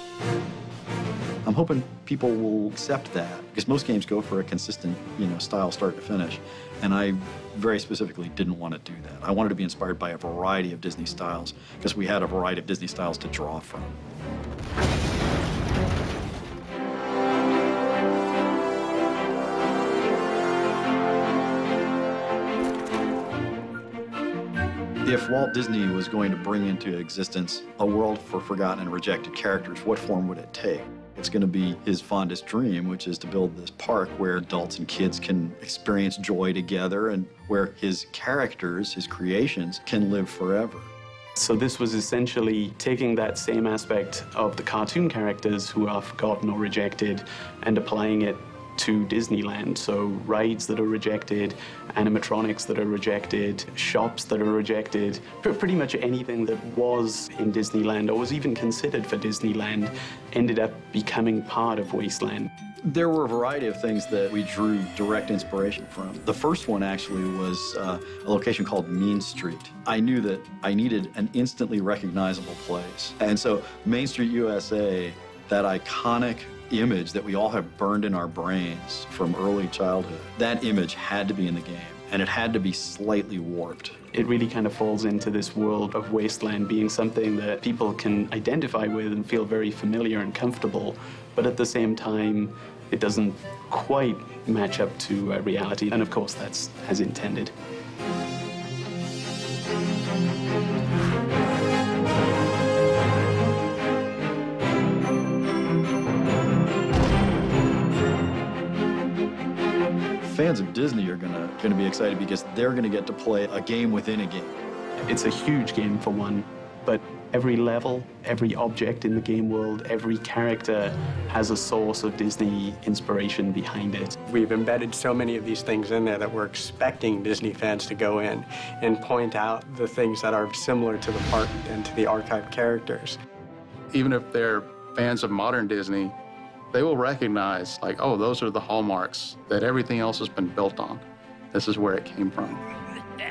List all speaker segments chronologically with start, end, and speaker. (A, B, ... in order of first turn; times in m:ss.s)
0:01.4-0:13.9 A
0:25.0-0:40.9 A
0:41.4-1:02.5 B
1:02.8-1:23.9 A
1:24.1-1:37.5 B
1:50.2-1:54.5 A
1:55.0-2:04.2 B
2:04.3-2:13.2 C
2:13.9-2:16.1 D
2:16.7-2:22.6 D